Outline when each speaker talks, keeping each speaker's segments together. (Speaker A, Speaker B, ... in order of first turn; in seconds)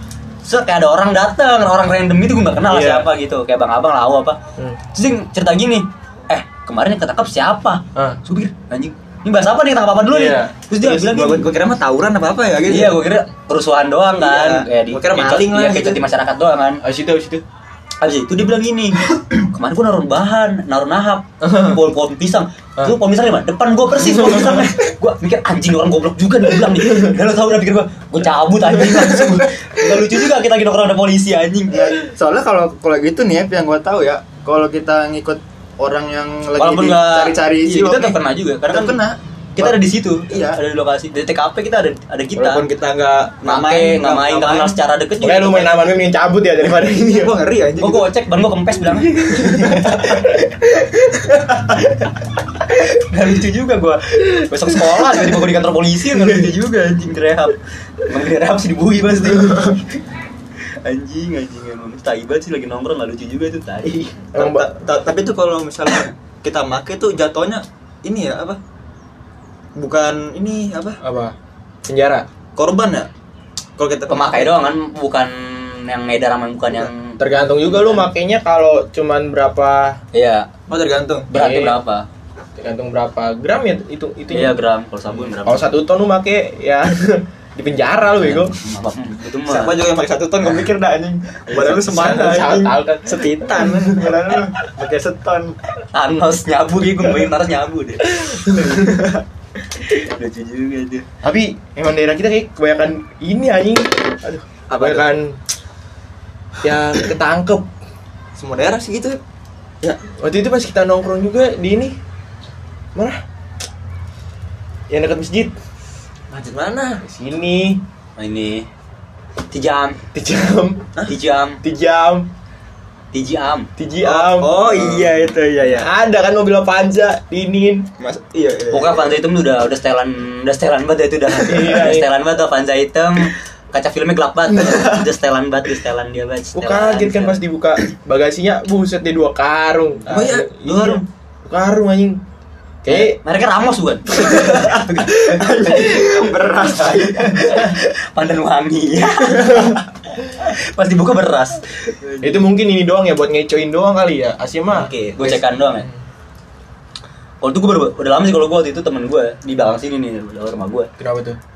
Speaker A: 0.4-4.4, 4.9-11.5, 12.7-16.8, 18.0-32.0, 36.6-39.0, 39.6-42.7, 43.4-45.8, 47.8-49.9, 52.8-59.9, 60.8-64.3, 74.1-78.1, 80.1-80.5, 81.3-82.1, 84.3-85.8, 88.2-89.8, 95.9-98.9, 99.9-101.1, 118.2-118.7, 119.5-120.0, 121.1-121.6, 123.1-123.7, 128.7-137.4, 140.7-141.0, 142.9-146.1, 146.8-152.4, 154.8-155.9, 157.4-160.9
Speaker B: 2.7-3.1, 10.1-10.6, 16.8-17.4, 21.4-21.8, 45.2-47.4, 49.3-50.5, 64.3-64.7, 71.0-72.3, 77.2-80.0, 81.3-81.8, 82.6-84.6, 85.4-88.5, 91.5-94.4, 98.2-98.9, 101.2-105.4, 106.6-107.7, 110.2-112.0, 113.0-113.2, 114.9-115.5, 117.0-117.8, 120.1-120.9, 121.6-122.3, 123.8-125.1, 125.8-127.9, 131.4-132.1, 136.6-142.2, 142.8-143.2, 152.2-155.9, 161.0-161.4
Speaker C: 10.8-13.0, 14.2-16.0, 31.7-38.2, 38.7-39.8, 40.3-40.6, 42.4-44.8, 46.8-48.1, 49.3-50.3, 51.3-51.7, 64.3-68.6, 69.8-71.0, 72.6-73.1, 73.8-74.6, 80.7-81.3, 89.5-95.6, 98.6-99.2, 108.4-109.2, 116.3-117.0, 124.0-125.9, 128.0-129.2, 140.1-141.0, 144.2-147.8, 154.8-155.2